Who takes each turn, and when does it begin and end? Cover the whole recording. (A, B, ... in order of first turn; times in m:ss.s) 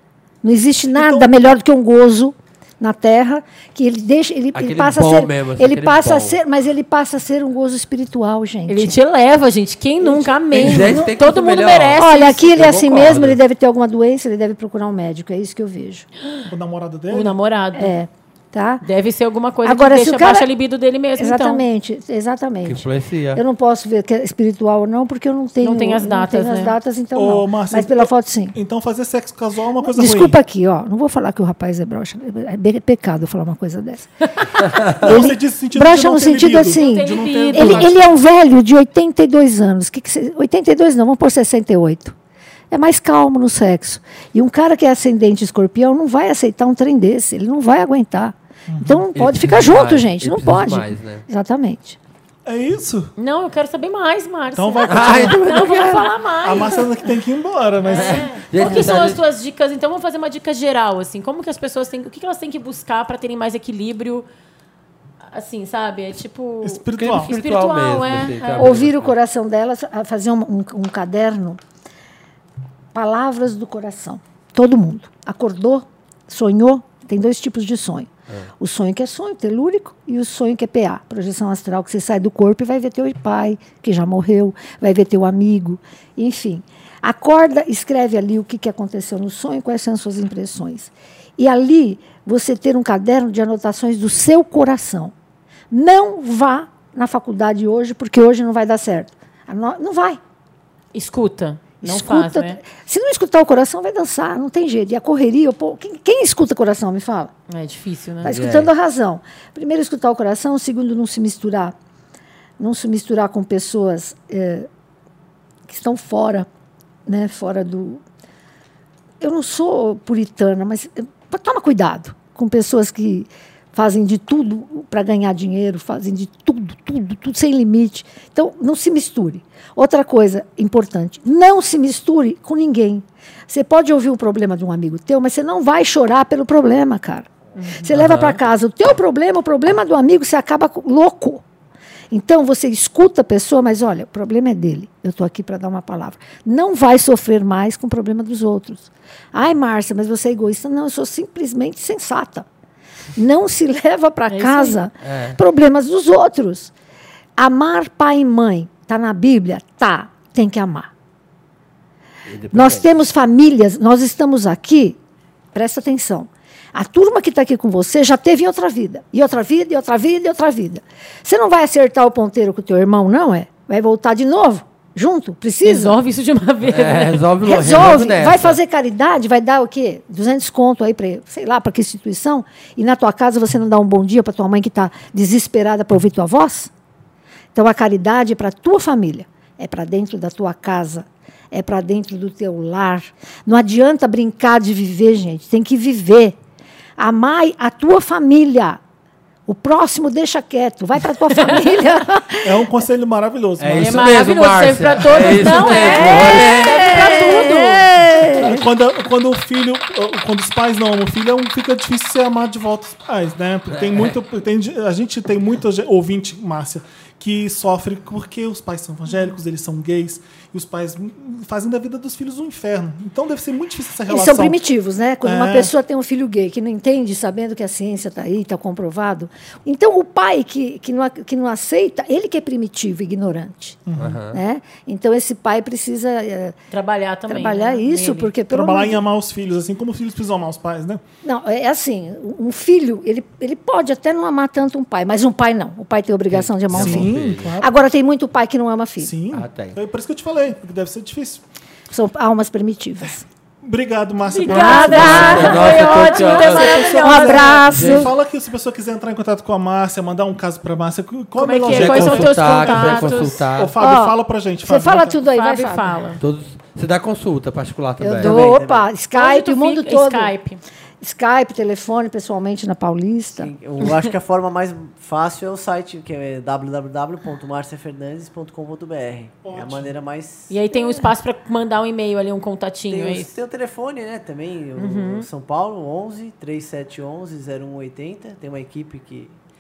0:00.4-0:09.0 A
0:01.0-0:01.4 B
0:04.5-0:06.4 C
0:08.7-0:12.8 D
0:10.0-0:11.2 A
0:10.5-0:13.4 C
0:12.0-0:16.1 A
0:16.5-0:17.4 B
0:17.1-0:17.9 D
0:17.8-0:18.8 A
0:18.8-0:21.6 D
0:19.6-0:20.5 A
0:21.2-0:28.6 A
0:22.6-0:23.4 C
0:25.6-0:26.8 D
0:27.2-0:30.4 B
0:29.8-0:34.1 A
0:34.9-0:38.1 B
0:35.0-0:42.2 A
0:36.7-0:37.9 D
0:42.7-0:52.0 A
0:48.7-0:49.1 B
0:49.2-0:51.2 C
0:52.5-0:53.1 B
0:53.2-0:56.9 D
0:54.5-0:55.4 B
0:54.8-0:56.1 C
0:56.4-0:58.3 B
0:57.8-1:04.3 D
0:57.9-0:59.2 C
1:05.3-1:08.8 D
1:06.6-1:07.3 B
1:07.0-1:09.2 C
1:08.6-1:11.6 A
1:12.9-1:18.1 A
1:18.6-1:35.1 A
1:35.7-1:40.2 A
1:40.9-1:42.6 D
1:41.8-1:47.3 A
1:47.5-1:48.3 D
1:48.2-1:51.8 A
1:48.2-1:48.7 C
1:52.6-1:54.7 A
1:55.7-1:56.5 A
1:57.1-1:58.0 A
1:59.2-2:21.4 A
2:17.6-2:17.9 D
2:17.9-2:18.4 C
2:22.1-2:32.5 A
2:33.2-2:36.7 A
2:34.3-2:34.8 D
2:35.0-2:35.4 C
2:37.4-2:40.9 A
2:42.3-2:43.0 C
2:42.5-2:45.0 A
2:45.5-2:56.0 A
2:55.6-2:57.3 D
2:56.6-2:58.6 C
2:57.4-3:06.7 A
3:07.5-3:16.4 A
3:17.0-3:18.8 A
3:19.5-3:22.6 A
3:21.4-3:21.7 D
3:22.4-3:24.3 B
3:23.6-3:27.2 C
3:23.8-3:27.9 D
3:25.1-3:25.9 B
3:26.1-3:28.5 A
3:28.4-3:44.6 B
3:33.7-3:34.1 C
3:44.1-3:53.8 A
3:45.2-3:45.7 B
3:53.9-3:54.2 B
3:54.0-3:54.4 C
3:54.3-3:56.6 A
3:56.7-3:58.3 D
3:57.3-3:59.0 A
3:58.5-4:01.0 B
4:01.2-4:09.1 A
4:06.3-4:07.6 C
4:06.7-4:07.7 B
4:09.0-4:11.4 B
4:09.3-4:09.8 C
4:11.9-4:13.2 A
4:13.6-4:25.2 B
4:14.3-4:17.6 D
4:14.5-4:15.7 A
4:14.7-4:17.0 C
4:16.2-4:18.1 A
4:17.6-4:18.1 C
4:21.4-4:23.4 D
4:21.7-4:23.8 C
4:23.8-4:26.0 A
4:25.2-4:26.2 D
4:26.2-4:28.5 C
4:28.0-4:30.3 A
4:28.2-4:28.9 E
4:29.2-4:30.6 D
4:31.0-4:33.5 A
4:33.3-4:40.5 E
4:39.4-4:40.0 B
4:40.5-4:43.3 D
4:42.9-4:49.4 E
4:44.8-4:45.3 D